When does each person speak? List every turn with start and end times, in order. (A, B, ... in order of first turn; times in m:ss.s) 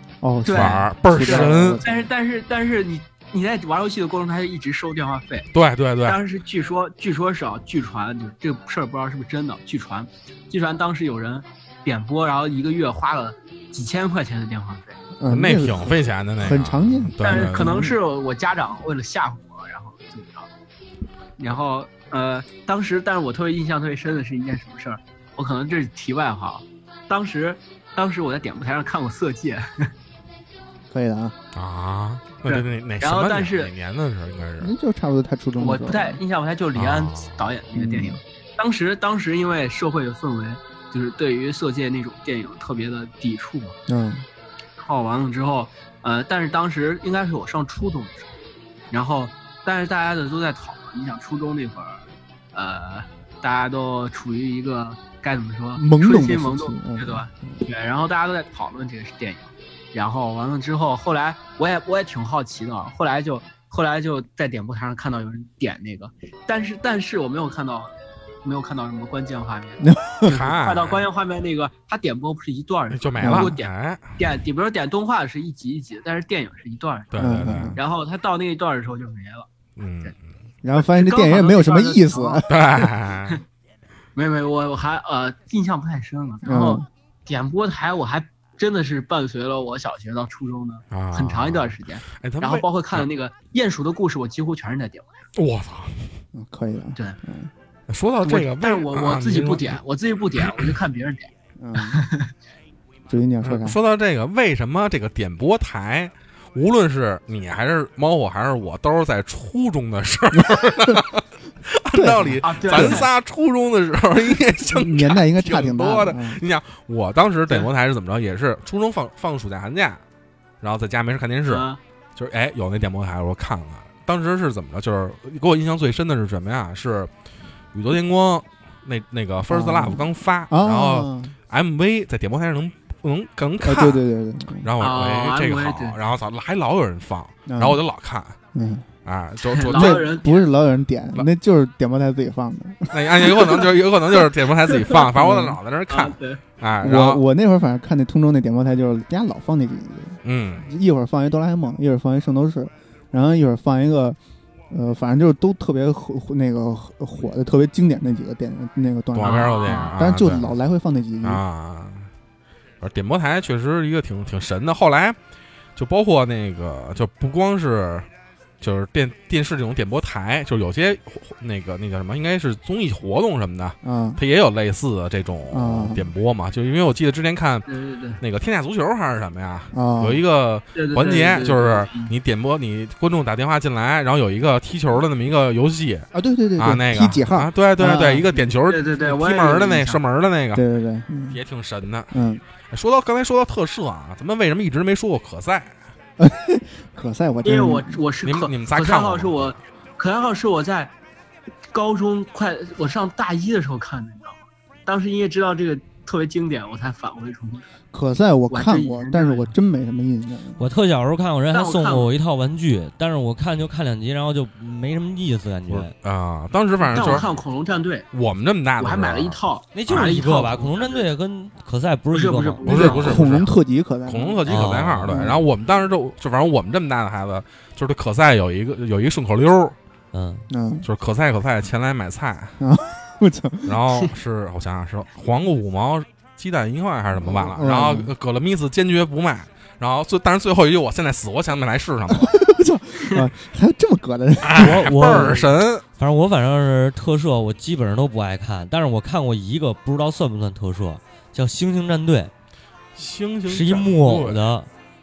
0:00.2-0:02.0 A
0:00.5-0:05.5 B
0:00.5-0:01.8 C
0:05.5-0:06.2 C
0:06.1-0:15.0 B
0:15.2-0:18.0 A
0:15.3-0:17.8 C
0:17.2-0:20.5 B
0:21.4-0:29.9 B
0:30.9-0:31.4 A
0:31.5-0:34.7 C
0:32.5-0:33.7 B
0:34.6-0:36.2 A
0:35.6-0:43.8 B
0:36.8-0:37.5 C
0:37.8-0:38.2 A
0:43.9-0:44.3 A
0:44.8-0:48.3 B
0:48.9-1:19.5 B
0:55.8-0:57.6 A
1:09.8-1:10.4 A
1:10.2-1:11.1 C
1:12.9-1:14.2 C
1:13.2-1:13.5 A
1:17.1-1:17.8 C
1:17.2-1:17.8 A
1:19.8-1:20.2 C
1:20.6-1:22.6 A
1:20.8-1:22.5 B
1:22.5-1:23.4 C
1:24.2-1:35.1 B
1:26.4-1:26.9 A
1:30.9-1:33.1 C
1:35.4-1:36.2 C
1:36.3-1:37.5 A
1:37.9-1:39.8 C
1:38.2-1:42.3 B
1:40.4-1:40.8 C
1:41.6-1:42.0 A
1:43.1-1:43.8 A
1:43.4-2:00.0 C
1:50.4-1:51.0 A
1:51.9-1:53.1 A
1:52.4-1:53.1 B
1:54.7-1:56.4 A
2:00.6-2:07.1 C
2:01.5-2:01.8 B
2:07.7-2:14.0 C
2:09.5-2:11.3 A
2:13.6-2:14.7 A
2:14.6-2:18.4 C
2:14.8-2:16.0 B
2:17.5-2:17.8 A
2:18.5-2:18.9 A
2:19.0-2:20.1 C
2:19.6-2:20.5 B
2:19.7-2:23.6 A
2:22.9-2:27.2 C
2:24.7-2:25.0 B
2:25.2-2:25.6 A
2:25.9-2:26.4 B
2:26.8-2:34.2 A
2:30.2-2:30.7 C
2:34.7-2:41.4 A
2:39.1-2:40.6 C
2:39.2-2:40.0 B
2:41.2-2:42.1 C
2:42.8-2:45.2 C
2:45.8-2:48.1 C
2:48.6-2:57.7 C
2:53.8-2:54.2 A
2:55.5-2:56.1 A
2:57.7-2:58.2 B
2:58.2-3:10.6 C
2:59.7-3:00.2 A
3:00.8-3:02.1 B
3:06.1-3:08.5 A
3:08.7-3:10.0 B
3:10.5-3:11.4 A
3:11.3-3:12.1 C
3:12.1-3:12.4 A
3:12.7-3:15.8 C
3:16.2-3:18.0 A
3:17.4-3:21.0 B
3:18.2-3:19.6 C
3:21.7-3:27.7 B
3:27.9-3:30.6 A
3:28.5-3:29.5 B
3:30.6-3:35.9 D
3:31.5-3:32.1 B
3:35.7-3:37.3 C
3:36.8-3:38.1 B
3:38.1-3:39.4 C
3:38.8-3:41.1 B
3:39.7-3:43.0 D
3:42.1-3:43.5 B
3:42.6-3:43.5 C
3:42.8-3:45.4 A
3:44.1-3:49.8 C
3:44.5-3:45.3 D
3:50.1-3:50.5 D
3:50.5-3:50.9 A
3:50.8-3:52.6 C
3:52.6-3:54.0 A
3:53.7-4:02.3 C
3:57.2-3:58.1 A
4:02.1-4:05.4 A
4:04.4-4:05.8 C
4:04.5-4:12.3 D
4:13.0-4:14.4 C
4:13.5-4:14.7 D